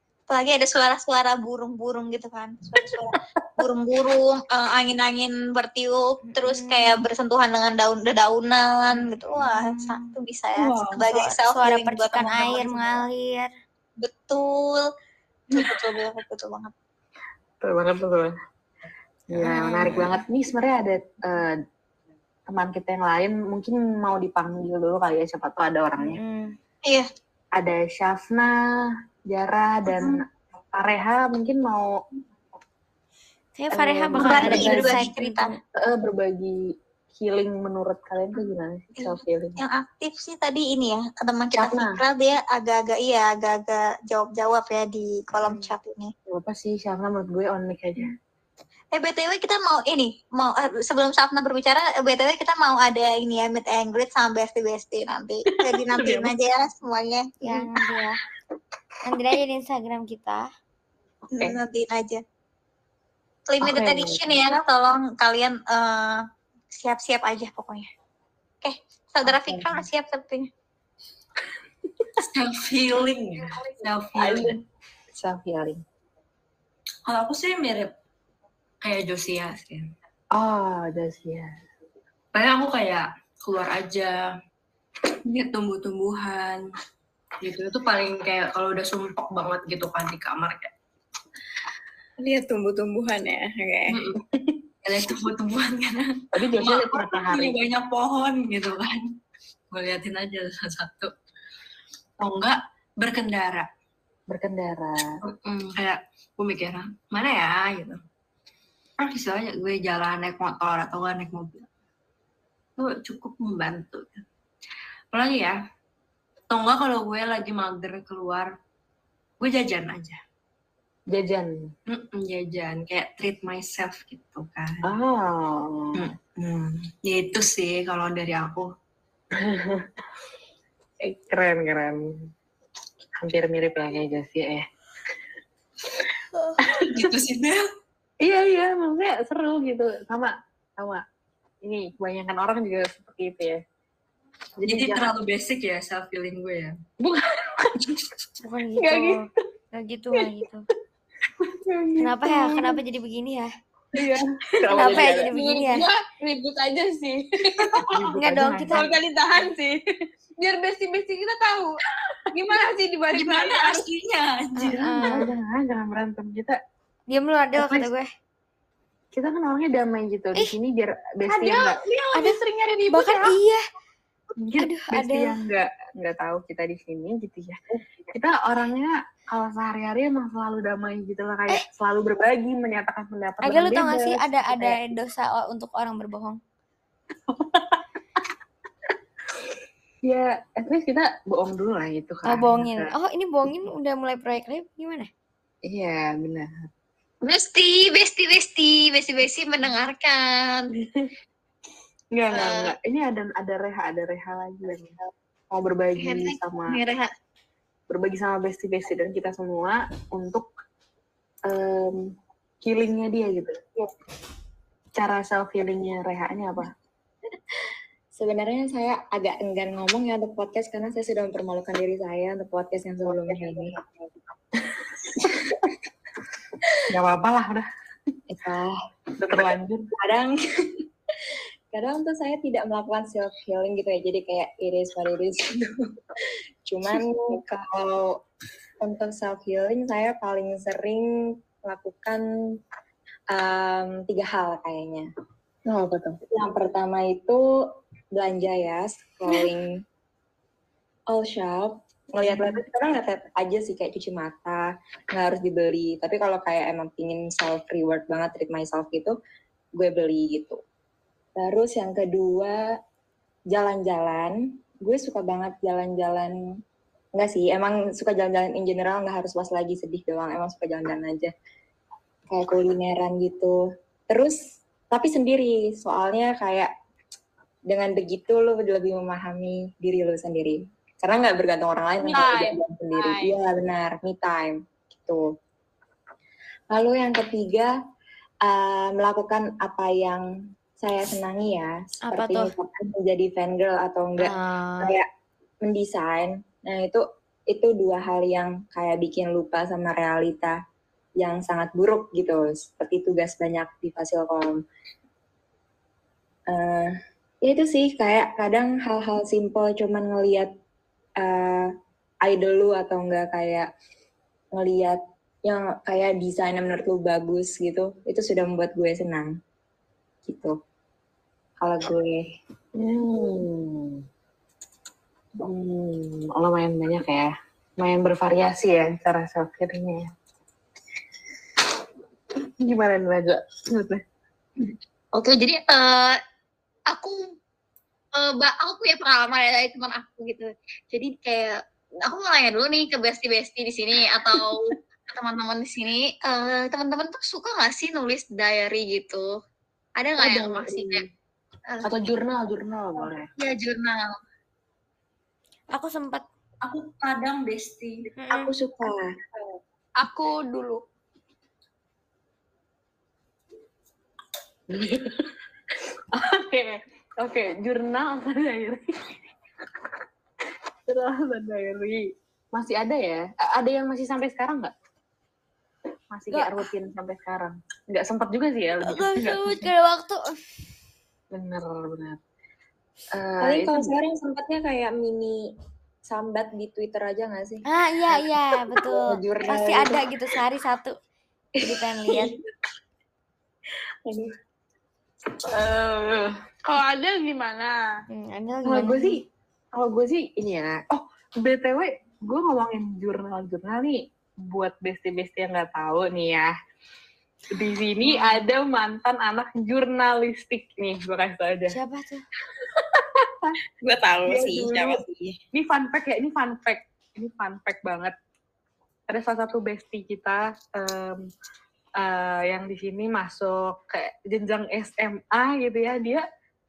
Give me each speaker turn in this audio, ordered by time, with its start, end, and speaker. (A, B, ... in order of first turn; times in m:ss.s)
0:00.3-0:13.0 A
0:06.3-0:07.0 B
0:09.4-0:10.1 B
0:11.1-0:13.5 B
0:14.0-0:14.8 A
0:15.5-0:16.7 A
0:17.6-0:18.3 C
0:19.3-0:21.6 C
0:19.4-0:20.2 B
0:22.5-0:26.2 C
0:26.0-0:26.5 B
0:27.6-0:28.6 C
0:29.3-0:31.9 C
0:29.9-0:30.2 A
0:33.6-0:35.6 B
0:33.7-0:35.0 C
0:34.2-0:35.5 A
0:35.8-0:36.6 C
0:37.2-0:39.6 C
0:39.0-0:46.1 A
0:41.6-0:42.0 C
0:46.3-0:48.1 C
0:48.9-0:57.7 A
0:55.7-0:56.3 C
0:57.4-0:58.2 B
0:59.0-1:00.5 B
1:01.3-1:02.2 A
1:03.5-1:06.2 A
1:03.6-1:04.3 C
1:06.7-1:07.9 A
1:08.6-1:10.5 A
1:09.3-1:09.8 C
1:12.2-1:14.6 D
1:14.2-1:14.6 C
1:15.2-1:15.8 C
1:17.1-1:17.9 D
1:18.8-1:19.9 D
1:20.3-1:21.5 C
1:22.3-1:24.3 D
1:25.3-1:26.6 D
1:27.4-1:30.7 D
1:32.2-1:34.0 E
1:33.9-1:34.2 D
1:34.8-1:39.1 D
1:36.3-1:37.6 C
1:39.7-1:41.1 D
1:42.2-1:43.7 D
1:44.3-1:45.1 C
1:45.2-1:48.0 D
1:49.0-1:51.7 D
1:52.8-1:54.2 D
1:55.1-1:55.6 D
1:56.5-1:58.5 D
1:59.4-2:00.2 D
2:01.1-2:01.5 C
2:01.9-2:04.9 D
2:04.8-2:06.1 C
2:06.0-2:08.7 D
2:09.3-2:09.9 C
2:11.0-2:12.3 C
2:13.2-2:14.7 C
2:16.6-2:17.1 C
2:16.8-2:17.6 D
2:18.2-2:21.0 C
2:21.6-2:23.6 C
2:24.6-2:25.1 C
2:24.6-2:26.8 D
2:27.0-2:28.0 C
2:28.4-2:30.7 B
2:28.8-2:29.2 C
2:31.4-2:32.8 C
2:32.0-2:33.5 B
2:33.9-2:35.3 C
2:34.8-2:35.9 B
2:34.8-2:37.2 F
2:38.2-2:38.8 B
2:38.2-2:38.5 G
2:38.6-2:39.7 C
2:38.7-2:39.7 F
2:40.4-2:41.8 F
2:42.3-2:43.9 F
2:43.2-2:45.0 D
2:44.6-2:45.3 B
2:45.0-2:46.6 C
2:47.1-2:48.1 B
2:47.6-2:47.9 C
2:49.1-2:51.8 C
2:51.3-2:53.3 F
2:52.1-2:53.6 B
2:54.4-2:57.6 C
2:54.6-2:55.4 B
2:58.1-3:04.8 C
3:03.4-3:06.4 B
3:07.3-3:07.8 C
3:10.0-3:12.9 C
3:12.3-3:15.1 B
3:15.6-3:16.7 C
3:17.2-3:20.7 A
3:20.8-3:21.1 C
3:22.1-3:25.0 C
3:22.3-3:22.8 A
3:25.5-3:26.8 C
3:26.0-3:27.1 A
3:27.9-3:30.5 C
3:31.5-3:32.0 C
3:32.6-3:33.6 C
3:35.0-3:36.7 C
3:38.2-3:43.9 G
3:45.1-3:45.4 C
3:46.9-3:47.6 C
3:48.3-3:48.8 G
3:49.2-3:49.9 C
3:49.9-3:50.4 G
3:51.7-3:55.8 G
3:56.7-3:58.2 G
3:58.8-4:01.1 G
4:01.6-4:02.2 G
4:03.3-4:05.1 G
4:05.7-4:07.4 G
4:08.1-4:09.7 G
4:11.1-4:19.2 G
4:19.8-4:20.6 G
4:21.4-4:22.6 G
4:23.5-4:26.4 G
4:27.2-4:31.3 G
4:32.3-4:34.4 G
4:34.9-4:36.7 G
4:37.7-4:45.3 G
4:42.0-4:42.4 C
4:42.1-4:42.4 F
4:46.7-4:47.7 G
4:48.4-4:55.1 G
4:52.1-4:52.5 B
4:54.2-4:55.0 B
4:55.6-5:00.6 G
5:01.2-5:04.6 G
5:06.5-5:10.5 G
5:11.2-5:13.7 G
5:14.5-5:19.4 G
5:20.2-5:20.6 G
5:21.6-5:22.3 G
5:22.8-5:24.0 C
5:25.4-5:30.1 C
5:32.4-5:34.0 C
5:34.6-5:36.2 A
5:36.9-5:37.2 A
5:38.2-5:49.3 A
5:50.0-5:51.0 A
5:50.2-5:51.1 C
5:51.8-5:53.3 C
5:53.4-5:54.2 A
5:55.7-5:56.2 B
5:56.7-5:59.1 G
5:58.2-5:58.5 B
6:00.0-6:00.8 F
6:04.7-6:05.1 C
6:06.1-6:09.2 C
6:10.9-6:14.7 C
6:16.1-6:19.7 C
6:16.3-6:16.6 B
6:18.8-6:20.4 B
6:21.3-6:22.2 C
6:23.1-6:24.0 C
6:23.4-6:25.5 G
6:26.1-6:30.4 G
6:27.7-6:31.0 B
6:31.6-6:32.3 B
6:35.4-6:37.7 C
6:38.1-6:39.2 B
6:38.6-6:39.2 C
6:39.7-6:46.5 C
6:47.5-6:51.8 C
6:48.0-6:48.5 B
6:51.7-6:52.2 B
6:52.6-6:53.6 C
6:53.8-6:55.4 E
6:54.3-6:55.0 C
6:55.5-6:58.1 C
6:59.1-7:01.3 C
7:02.0-7:06.2 C